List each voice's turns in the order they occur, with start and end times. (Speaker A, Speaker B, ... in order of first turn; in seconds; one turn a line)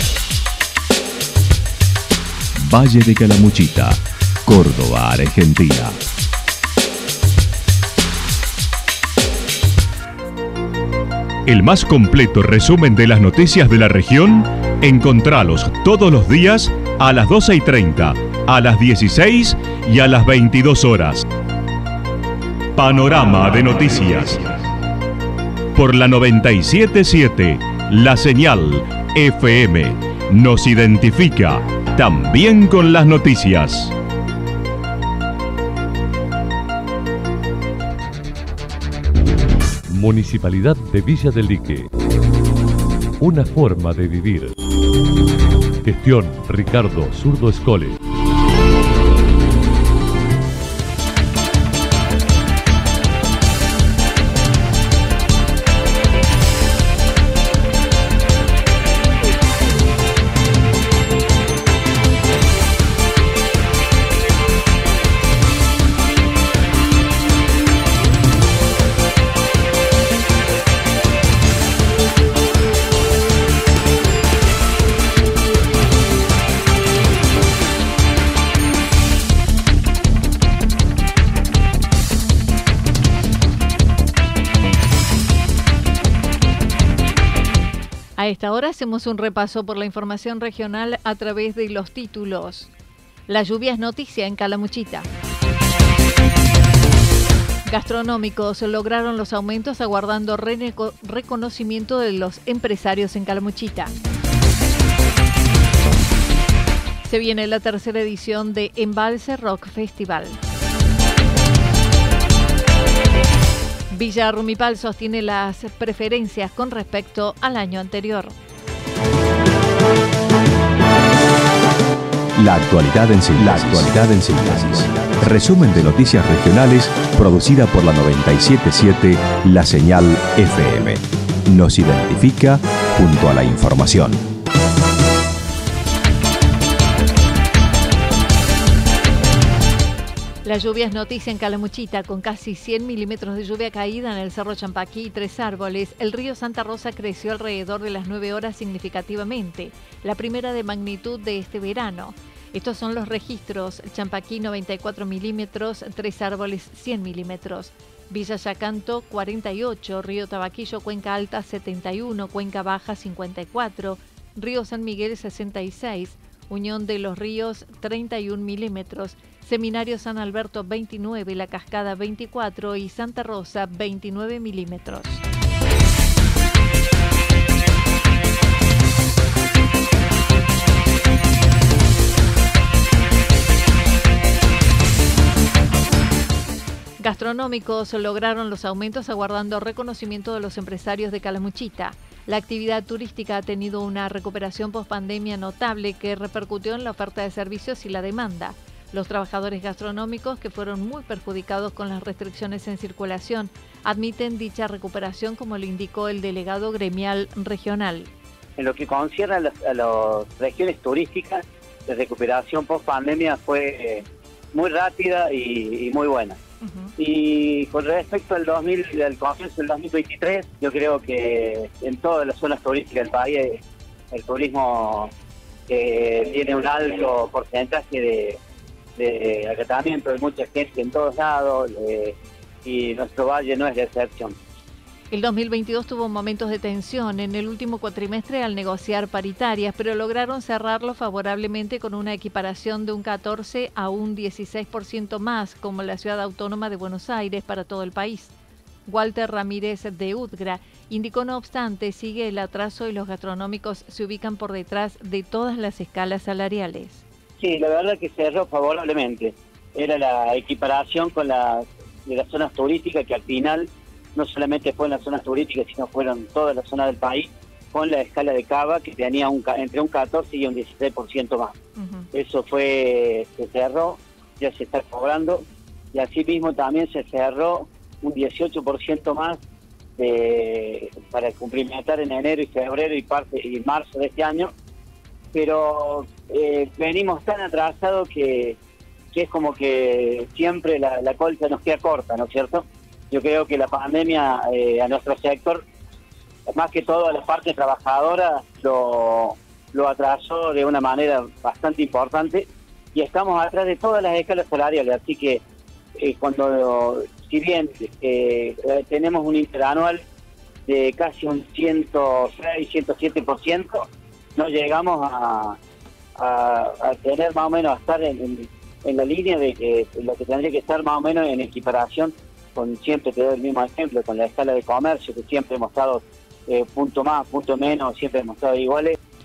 Speaker A: 2.5-6.0
Speaker A: 11.4-21.2
Speaker A: 22.8-24.5
Speaker A: 25.7-33.9
Speaker B: 39.9-41.9
Speaker B: 43.2-44.5
Speaker B: 45.8-48.0
Speaker C: 88.2-92.7
Speaker C: 93.3-95.1
Speaker C: 97.6-103.9
Speaker C: 107.0-110.4
Speaker C: 113.9-118.3
Speaker A: 122.3-134.2
Speaker C: 140.4-175.2
Speaker C: 187.0-208.1
Speaker D: 208.6-216.4
Speaker C: 216.6-216.9
Speaker D: 217.0-223.6
Speaker D: 224.1-225.1
Speaker D: 225.7-228.4
Speaker D: 229.0-234.3
Speaker C: 235.1-248.3
Speaker C: 248.8-257.0
Speaker D: 257.4-271.5
Speaker C: 271.8-272.1
Speaker D: 272.1-279.4
Speaker D: 280.0-284.5
Speaker D: 285.3-288.6
Speaker D: 289.1-295.6
Speaker D: 296.5-305.4
Speaker D: 306.0-310.0
Speaker D: 310.7-313.8
Speaker D: 314.4-315.6
Speaker D: 316.1-328.9